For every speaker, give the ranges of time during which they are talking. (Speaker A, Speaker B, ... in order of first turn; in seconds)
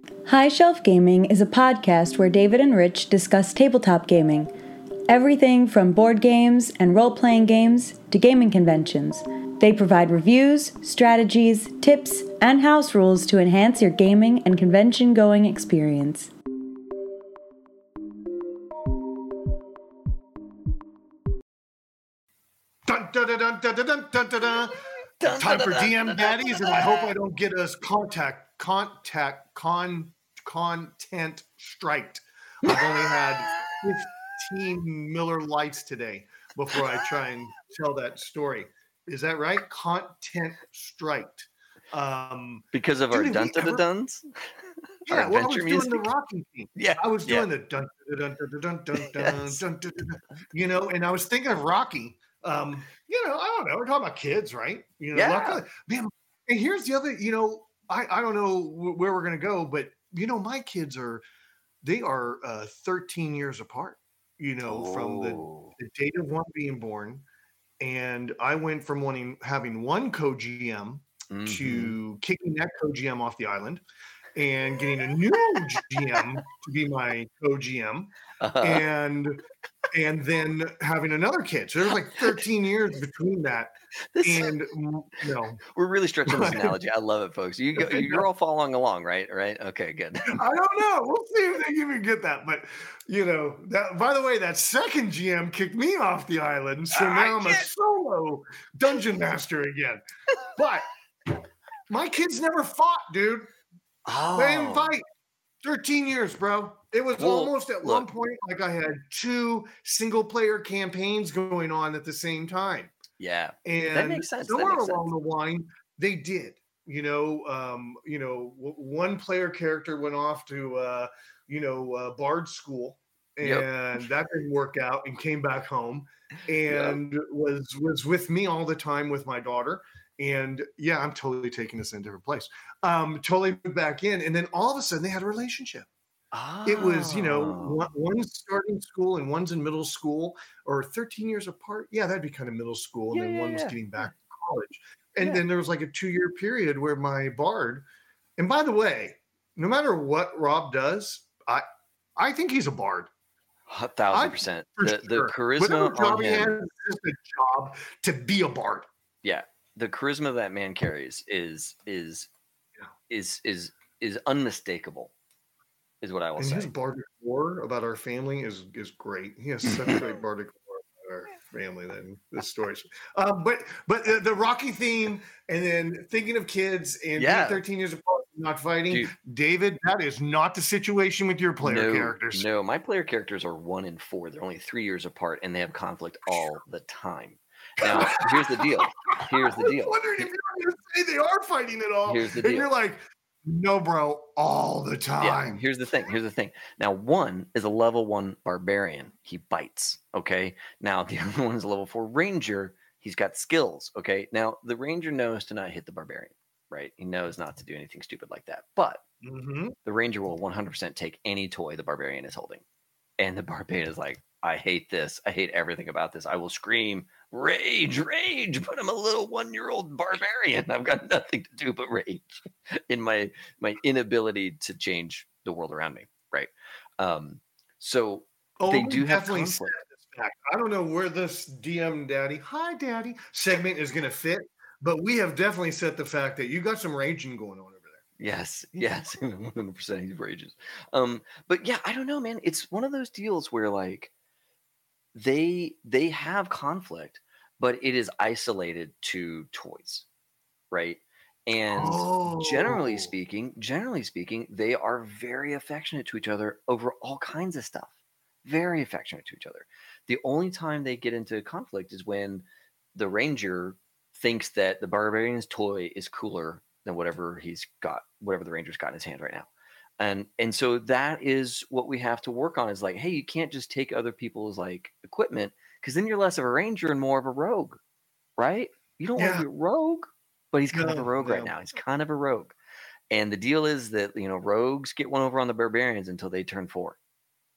Speaker A: 0.3-4.5, 5.1-16.3
Speaker B: 22.9-43.8, 45.1-61.2, 61.8-67.2, 67.8-73.8, 74.3-79.4, 79.9-85.6, 86.2-86.7, 87.8-88.2, 90.3-100.0, 100.5-100.8, 101.9-103.5, 104.3-105.0, 105.6-112.9, 113.6-135.9, 136.7-147.9, 148.4-151.7, 152.2-153.1, 154.1-158.9, 166.4-182.5, 187.8-195.6, 209.2-209.8, 228.6-238.0, 251.7-253.1, 279.2-279.4, 280.7-281.5
Speaker C: 25.2-27.1, 32.7-33.8, 42.7-44.3, 45.1-46.1, 46.8-47.5, 49.0-49.6, 55.1-55.6, 64.7-65.7, 71.3-72.0, 78.4-78.8, 84.1-84.5, 85.6-90.4, 96.9-97.7, 104.0-104.9, 107.2-108.1, 113.2-115.1, 123.4-123.7, 126.7-127.0, 136.3-137.9, 143.1-144.1, 153.7-156.5, 159.2-162.3, 163.1-165.1, 166.0-166.7, 177.2-177.6, 181.6-190.0, 192.1-192.7, 195.2-209.0, 209.9-212.6, 213.2-229.8, 238.2-244.1, 245.2-250.1, 250.7-257.9, 258.4-269.5, 270.0-277.8, 278.4-282.5, 283.1-287.0